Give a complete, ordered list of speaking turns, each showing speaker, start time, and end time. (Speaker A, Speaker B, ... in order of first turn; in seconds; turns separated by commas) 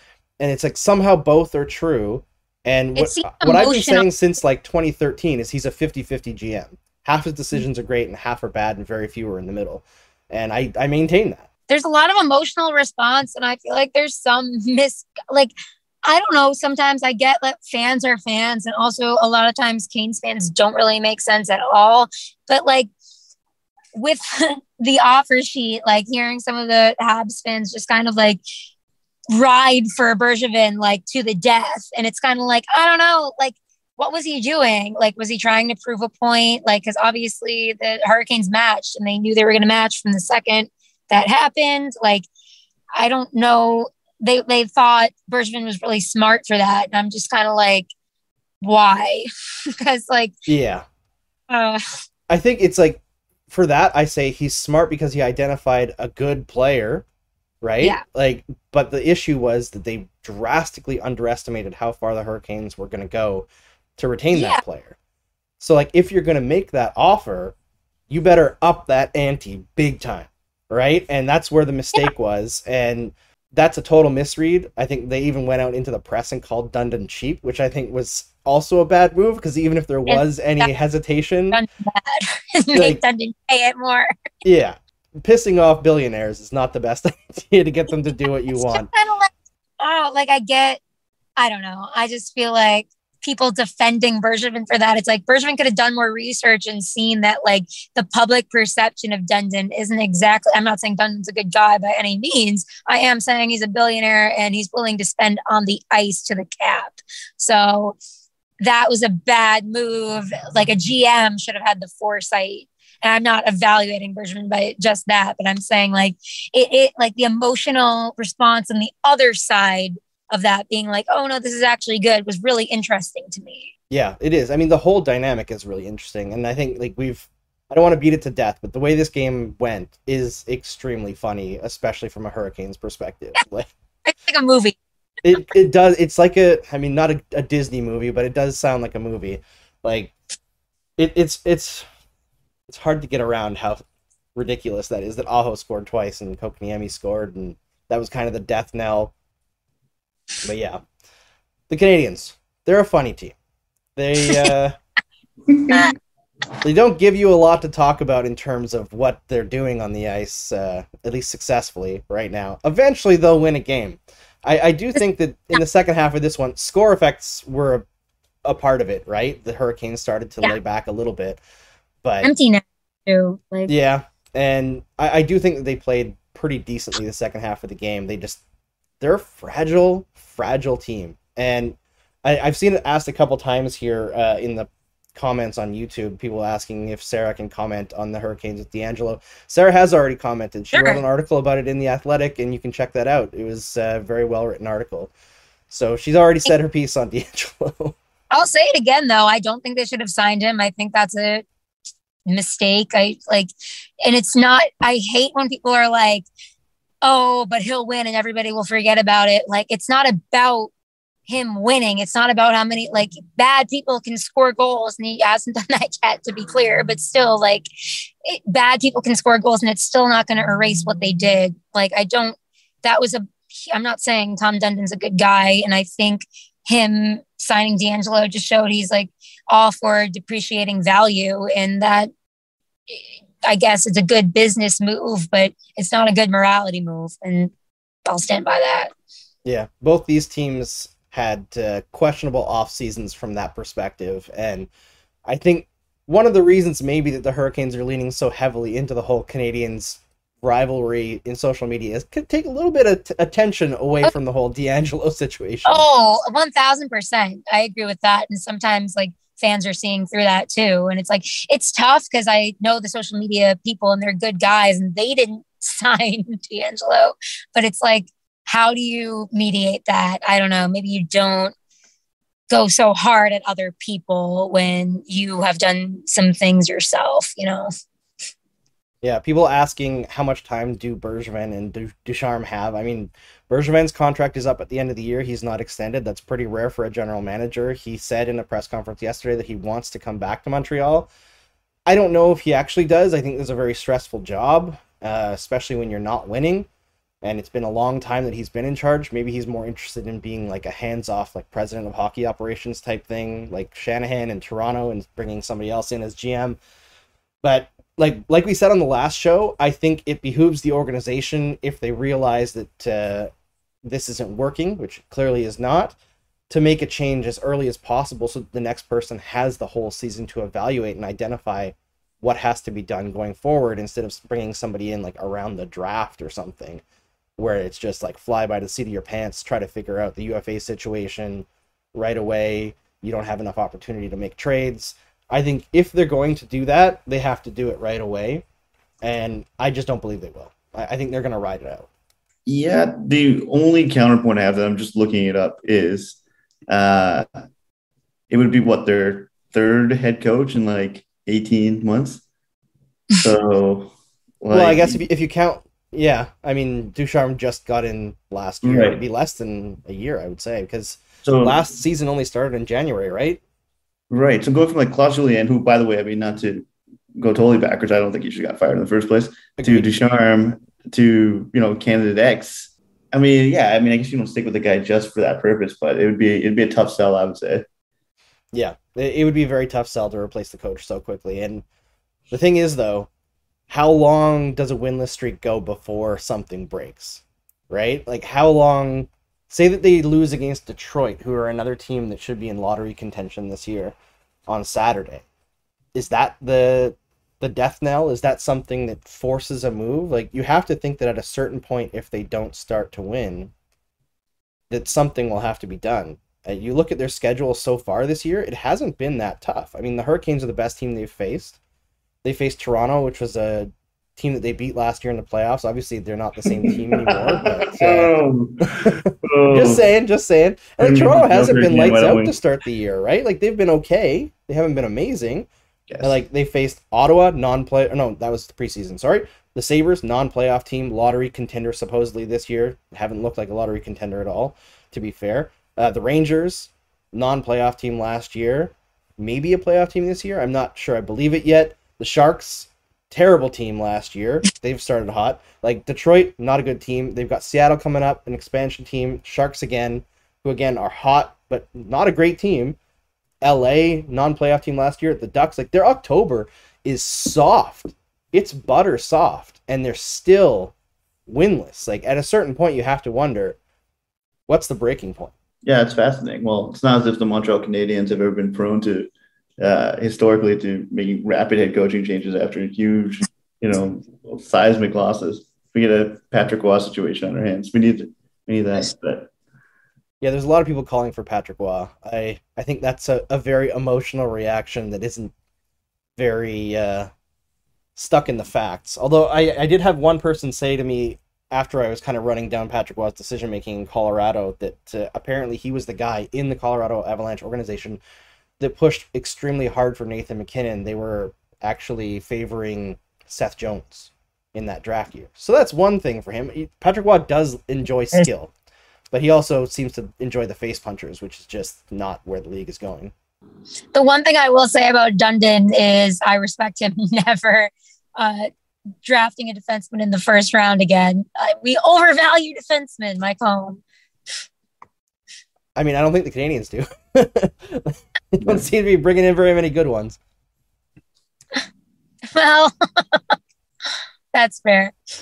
Speaker A: 0.4-11.4, Speaker B: 3.0-4.1, Speaker B: 11.7-15.5, Speaker B: 16.1-22.9, Speaker B: 23.9-28.4, Speaker B: 29.3-42.2, Speaker B: 43.0-47.9, Speaker B: 48.6-50.4, Speaker A: 50.5-50.9, Speaker B: 51.5-51.8, Speaker A: 52.3-57.0, Speaker A: 57.6-65.0, Speaker B: 64.3-64.6, Speaker A: 65.6-67.6, Speaker A: 68.1-81.6, Speaker B: 80.1-80.7, Speaker B: 81.5-84.1, Speaker A: 82.7-83.0, Speaker A: 84.4-88.9, Speaker B: 88.5-90.8, Speaker B: 91.4-108.0, Speaker B: 108.6-123.7, Speaker A: 123.9-133.7, Speaker B: 134.1-134.8, Speaker A: 135.2-140.1, Speaker A: 141.0-141.9, Speaker A: 142.7-143.8, Speaker A: 144.3-149.1, Speaker A: 150.4-150.8, Speaker A: 151.7-153.3, Speaker A: 154.0-154.8, Speaker B: 154.2-154.5, Speaker C: 155.5-155.9, Speaker A: 156.6-167.8, Speaker A: 168.4-171.4, Speaker A: 172.0-172.3, Speaker B: 172.2-173.7, Speaker A: 173.7-178.4, Speaker A: 179.0-195.1, Speaker B: 190.7-191.0, Speaker A: 195.7-198.0, Speaker B: 198.3-201.4, Speaker B: 202.3-206.2, Speaker B: 207.0-210.7, Speaker B: 211.3-217.7, Speaker B: 218.2-232.1, Speaker B: 232.9-237.5, Speaker B: 238.0-238.9, Speaker A: 239.4-244.7, Speaker A: 245.2-255.8, Speaker B: 255.7-271.5, Speaker B: 272.5-277.7, Speaker A: 279.0-291.1, Speaker A: 291.9-296.7, Speaker A: 297.2-306.6, Speaker A: 307.4-313.3, Speaker A: 313.8-316.0, Speaker A: 316.5-326.8, Speaker A: 327.4-338.4, Speaker A: 339.0-341.9, Speaker C: 342.5-347.3, Speaker C: 348.3-352.2, Speaker C: 353.1-355.0, Speaker A: 354.5-363.4, Speaker C: 358.6-359.0, Speaker C: 361.2-361.6, Speaker C: 364.1-377.6, Speaker A: 369.6-369.9, Speaker A: 378.5-381.6, Speaker A: 382.3-383.1, Speaker A: 383.7-394.0, Speaker A: 394.5-395.2, Speaker A: 395.9-403.5, Speaker A: 404.7-411.6, Speaker A: 412.2-418.1, Speaker C: 416.5-419.9, Speaker A: 418.7-425.5, Speaker C: 420.8-422.4, Speaker C: 425.9-426.2, Speaker A: 426.0-452.8, Speaker A: 453.4-460.7, Speaker A: 461.3-463.6, Speaker A: 464.5-465.3, Speaker C: 465.6-479.3, Speaker A: 480.2-485.3, Speaker A: 486.2-487.1, Speaker A: 488.0-498.0, Speaker A: 498.6-508.5, Speaker A: 509.1-513.1, Speaker B: 513.9-518.5, Speaker B: 519.0-523.8, Speaker A: 525.8-530.2, Speaker C: 528.4-528.7, Speaker B: 532.3-533.4, Speaker B: 534.3-534.9